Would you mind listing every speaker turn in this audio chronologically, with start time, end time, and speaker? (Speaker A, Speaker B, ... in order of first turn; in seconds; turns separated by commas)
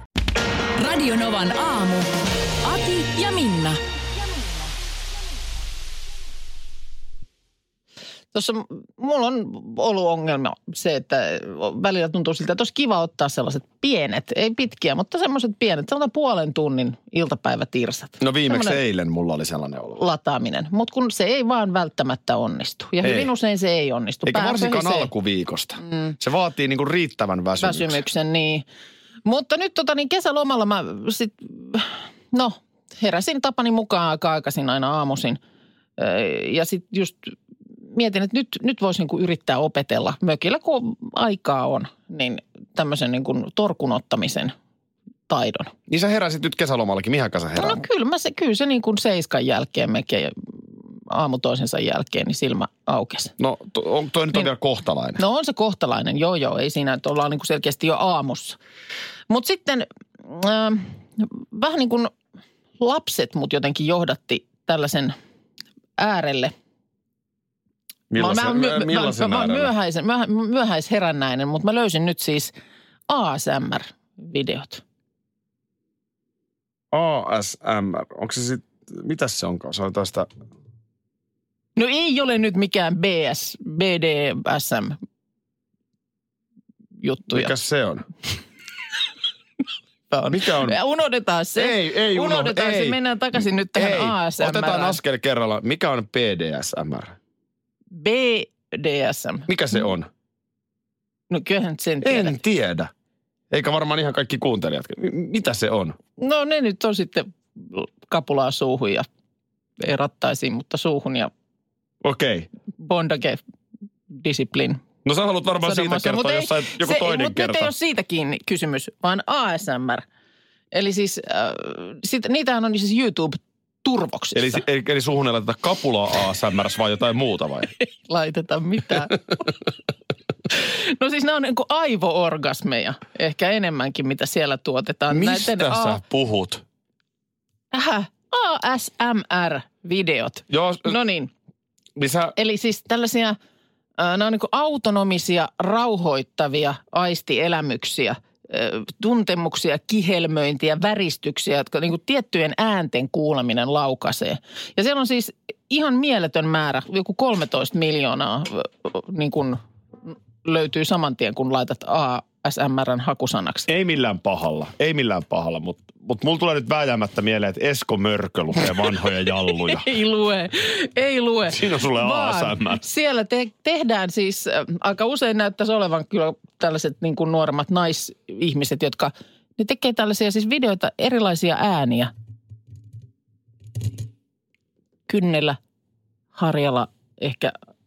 Speaker A: 0.8-2.0, Speaker A: 2.7-3.8, Speaker B: 8.3-18.8, Speaker C: 18.2-20.0, Speaker B: 20.0-25.1, Speaker C: 23.0-23.3, Speaker C: 24.2-28.0, Speaker B: 27.6-28.6, Speaker B: 29.2-35.4, Speaker B: 36.0-37.3, Speaker B: 37.9-44.5, Speaker B: 45.3-45.7, Speaker C: 45.9-47.8, Speaker B: 47.5-53.3, Speaker C: 53.4-55.2, Speaker B: 55.2-58.6, Speaker B: 59.3-62.1, Speaker B: 62.8-65.1, Speaker B: 66.0-66.5, Speaker C: 68.1-69.7, Speaker B: 68.2-72.5, Speaker B: 73.1-74.8, Speaker C: 76.9-80.3, Speaker B: 81.8-85.0, Speaker B: 87.0-87.5, Speaker C: 87.3-88.1, Speaker B: 90.1-95.0, Speaker C: 90.3-90.8, Speaker C: 91.6-93.0, Speaker C: 93.7-97.2, Speaker B: 97.9-99.8, Speaker C: 99.5-100.1, Speaker B: 101.3-102.4, Speaker C: 102.0-102.9, Speaker C: 103.5-106.0, Speaker B: 106.2-109.1, Speaker B: 109.8-111.3, Speaker C: 112.0-112.5, Speaker B: 112.8-113.4, Speaker B: 114.1-114.8, Speaker C: 115.0-117.7, Speaker B: 115.6-120.0, Speaker B: 120.7-124.6, Speaker C: 124.3-127.7, Speaker B: 128.1-129.2, Speaker B: 130.6-136.0, Speaker C: 135.1-136.6, Speaker B: 137.7-141.3, Speaker C: 140.5-140.9, Speaker C: 142.0-142.3, Speaker B: 142.3-143.4, Speaker B: 144.0-163.7, Speaker C: 163.7-169.9, Speaker B: 169.7-182.1, Speaker C: 171.5-172.8, Speaker B: 185.1-185.6, Speaker B: 186.3-187.5